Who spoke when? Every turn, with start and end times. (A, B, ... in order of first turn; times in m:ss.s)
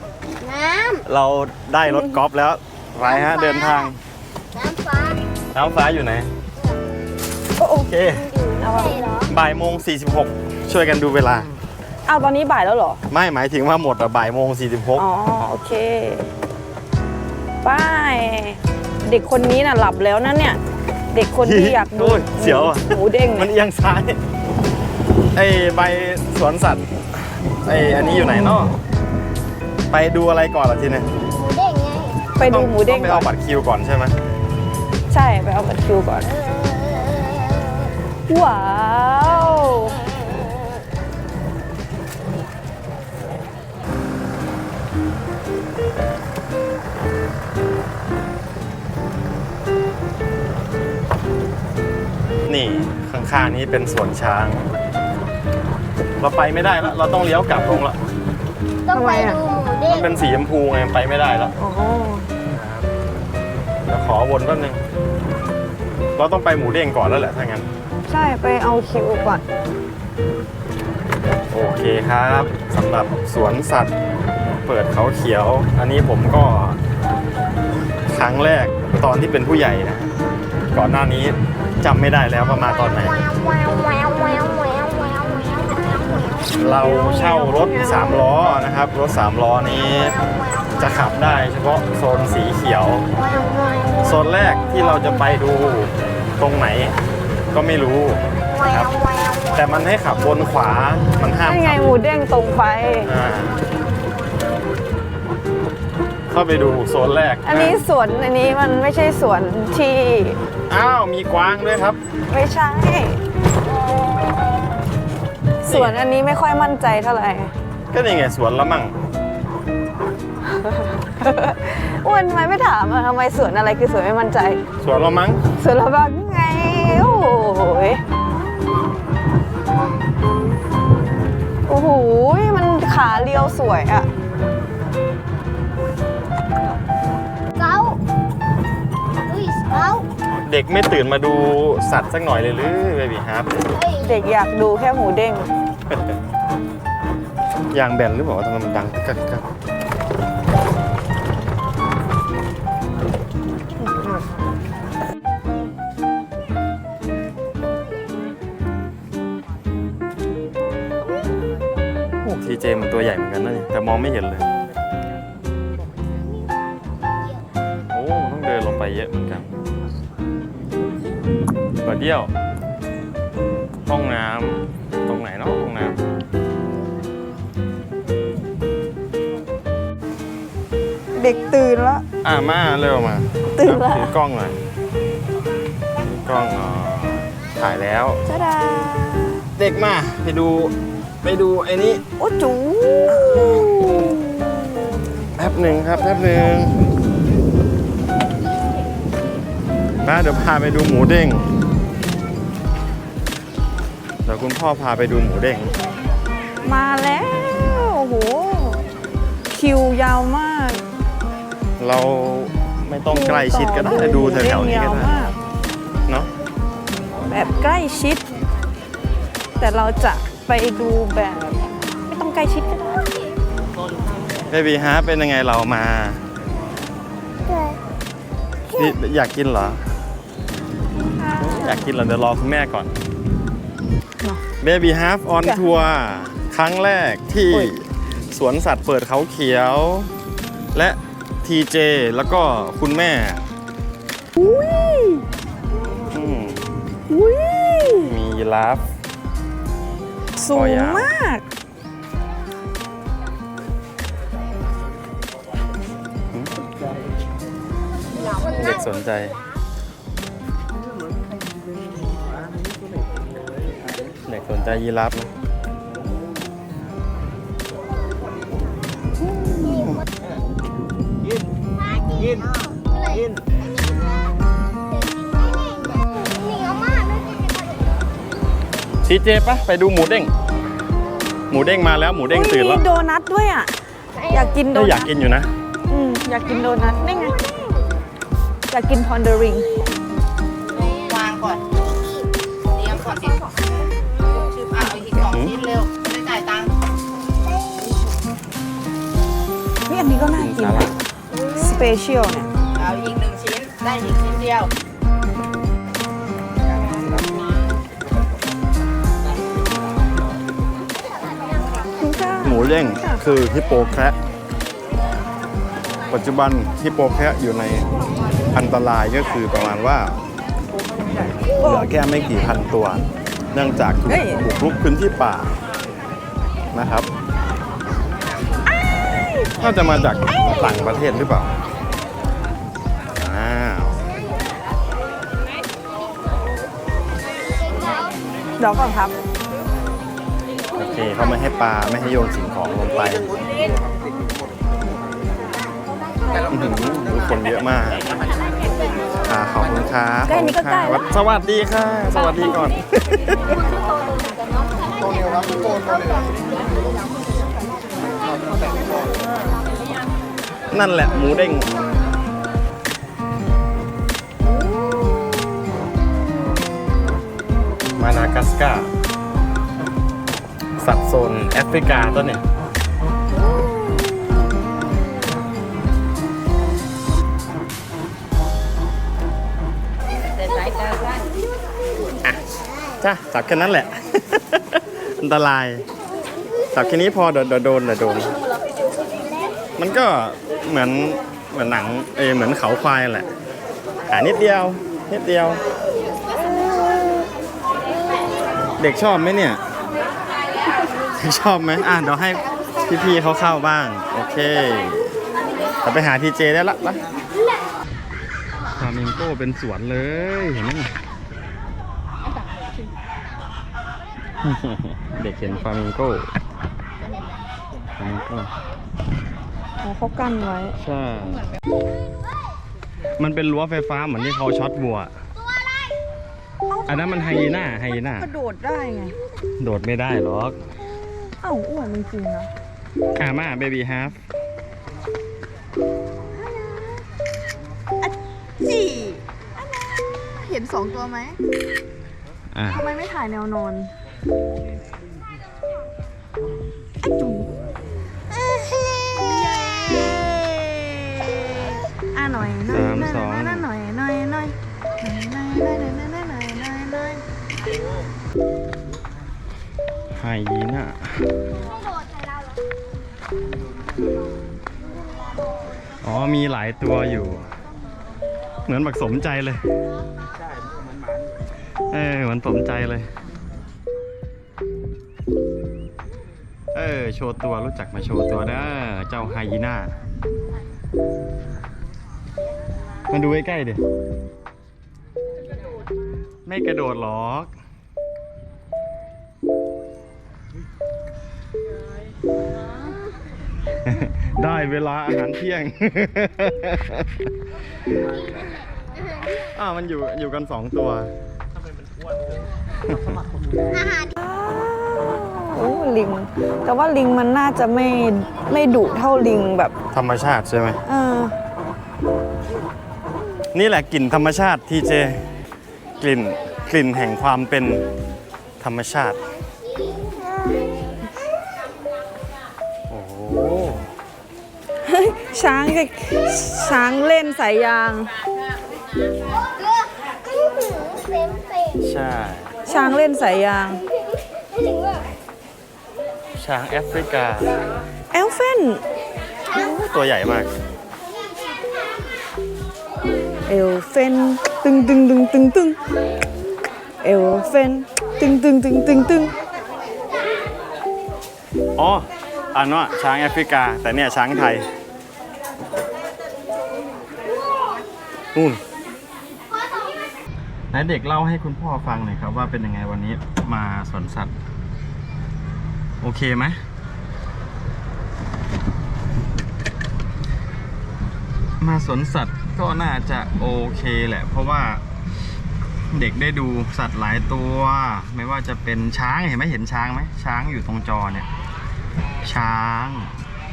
0:00.4-0:01.0 A
0:01.0-0:04.0 B
0:01.8-0:02.1 C
0:03.0-0:03.9 A
0:04.5-0:05.2 A
0:05.5-0:06.3 B
0:07.6-0:07.9 C
0:07.8-0:08.3 B
0:08.1-0:09.3 A
0:08.6-0:09.0 C
0:09.3-0:11.5 B
0:12.0-0:13.0 C
0:13.1-0:15.0 B
0:15.0-0:16.2 C
0:17.6-0:20.6 C
0:21.1-0:23.5 C
0:21.4-0:24.2 B
0:25.3-0:28.7 B
0:29.9-0:31.1 B
0:31.4-0:32.2 A
0:32.3-0:33.3 C
0:32.5-0:34.2 B
0:35.1-0:36.4 C
0:36.5-0:37.7 A
0:38.3-0:40.0 C
0:52.4-0:54.6 B
0:56.2-0:58.0 B
0:58.8-1:00.2 A
0:58.9-0:59.4 C
0:59.9-1:01.5 B
1:01.6-1:02.3 C
1:02.5-1:02.8 B
1:03.9-1:04.8 B
1:06.2-1:07.7 B
1:08.1-1:09.4 C
1:11.5-1:13.9 B
1:14.4-1:16.8 B
1:18.1-1:20.1 B
1:20.7-1:23.2 B
1:22.6-1:26.6 A
1:26.6-1:30.2 B
1:26.7-1:28.2 C
1:29.9-1:30.9 A
1:30.8-1:33.0 B
1:33.2-1:34.0 A
1:34.0-1:37.0 B
1:37.5-1:38.9 B
1:38.6-1:39.6 A
1:39.5-1:41.9 B
1:41.4-1:43.1 C
1:43.0-1:43.6 B
1:46.3-1:47.8 B
1:47.4-1:50.4 C
1:50.7-1:52.0 B
1:52.3-1:53.2 C
1:55.6-1:57.5 C
1:55.6-1:56.0 B
1:57.9-1:58.9 B
2:00.4-2:04.6 C
2:04.8-2:05.4 B
2:05.5-2:08.0 C
2:11.6-2:14.1 C
2:17.6-2:18.0 A
2:19.3-2:20.1 A
2:20.4-2:23.6 B
2:23.7-2:24.1 A
2:24.0-2:25.5 C
2:27.7-2:29.4 B
2:42.2-2:44.5 B
2:47.9-2:49.5 B
2:51.8-2:52.3 B
2:53.8-2:56.0 B
3:01.1-3:02.0 C
3:02.2-3:04.6 B
3:03.5-3:04.1 C
3:06.2-3:08.2 B
3:08.2-3:09.4 C
3:09.6-3:12.0 B
3:12.2-3:14.7 C
3:15.4-3:16.8 B
3:20.0-3:21.5 B
3:24.2-3:25.7 B
3:26.6-3:28.8 C
3:29.5-3:30.8 C
3:31.8-3:35.1 B
3:33.1-3:35.4 C
3:37.3-3:38.2 C
3:39.6-3:43.1 C
3:44.5-3:46.2 B
3:47.5-3:47.8 A
3:48.7-3:49.8 B
3:51.1-3:51.9 C
3:51.4-3:52.9 B
3:54.6-4:00.1 B
3:55.4-3:55.8 C
4:00.7-4:03.4 B
4:04.4-4:05.2 C
4:06.1-4:06.6 B
4:07.1-4:08.1 C
4:08.0-4:08.9 B
4:10.4-4:11.4 C
4:10.5-4:11.1 B
4:18.5-4:19.4 B
4:24.2-4:25.3 B
4:29.3-4:30.0 B
4:32.0-4:33.5 A
4:34.9-4:37.9 A
4:39.0-4:40.3 B
4:41.5-4:42.8 B
4:42.3-4:43.7 C
4:44.2-4:44.5 A
4:44.3-4:45.1 C
4:44.7-4:45.5 B
4:45.9-4:47.4 C
4:48.7-4:49.7 C
4:51.0-4:51.6 D
4:52.8-4:53.3 D
4:54.4-4:56.7 D
4:55.3-4:55.6 B
4:59.9-5:01.0 C
5:00.4-5:00.9 B
5:01.5-5:02.5 C
5:02.8-5:04.7 D
5:12.0-5:13.2 C
5:12.4-5:14.2 B
5:16.1-5:17.9 B
5:18.5-5:20.2 B
5:21.5-5:21.9 C
5:21.6-5:25.5 B
5:24.1-5:24.4 C
5:26.7-5:27.1 B
5:29.1-5:30.5 C
5:29.6-5:31.5 B
5:33.2-5:34.0 B
5:38.6-5:39.2 C
5:40.8-5:43.3 B
5:46.5-5:48.0 B
5:49.2-5:53.6 B
5:50.2-5:51.1 C
5:53.7-5:57.0 A
5:58.5-5:59.5 A
6:00.7-6:01.8 B
6:08.0-6:08.9 B
6:10.8-6:12.4 B
6:23.0-6:25.8 B
6:26.7-6:28.4 B
6:29.8-6:33.3 B
6:34.1-6:35.6 B
6:38.8-6:39.6 B
6:41.2-6:45.2 B
6:45.8-6:47.0 B
6:48.8-6:50.9 B
6:54.4-6:56.3 B
6:58.0-6:58.5 B
6:59.8-7:00.8 C
7:00.8-7:01.5 B
7:03.2-7:05.1 B
7:06.7-7:09.2 C
7:06.9-7:08.3 B
7:09.6-7:10.6 B
7:11.4-7:12.5 C
7:13.2-7:14.2 B
7:16.5-7:16.8 C
7:18.0-7:19.2 C
7:20.3-7:21.4 C
7:22.5-7:22.8 B
7:22.7-7:23.9 C
7:27.0-7:27.5 C
7:28.3-7:37.2 C
7:32.7-7:33.7 B
7:40.2-7:41.2 B
7:46.0-7:47.5 B
7:48.7-7:49.6 B
7:51.9-7:53.1 B
7:56.7-8:00.0 B
8:03.1-8:03.8 B
8:06.4-8:07.5 B
8:13.8-8:17.1 B
8:19.5-8:21.1 B
8:23.7-8:24.1 A
8:24.2-8:29.7 C
8:29.9-8:30.8 B
8:30.8-8:31.3 C
8:33.5-8:35.3 B
8:36.0-8:37.8 B
8:38.6-8:39.2 B
8:42.9-8:43.9 B
8:44.8-8:48.1 C
8:49.6-8:51.8 A
8:51.8-8:52.6 B
8:52.6-8:53.8 C
8:54.6-8:55.0 A
8:56.4-8:57.5 B
8:58.1-8:58.8 C
8:59.5-9:00.5 B
9:03.4-9:05.8 C
9:07.0-9:09.3 C
9:11.8-9:14.6 B
9:18.3-9:18.6 B
9:20.7-9:24.3 B
9:26.0-9:26.6 B
9:31.6-9:34.8 B
9:35.9-9:41.3 B
9:42.2-9:43.1 B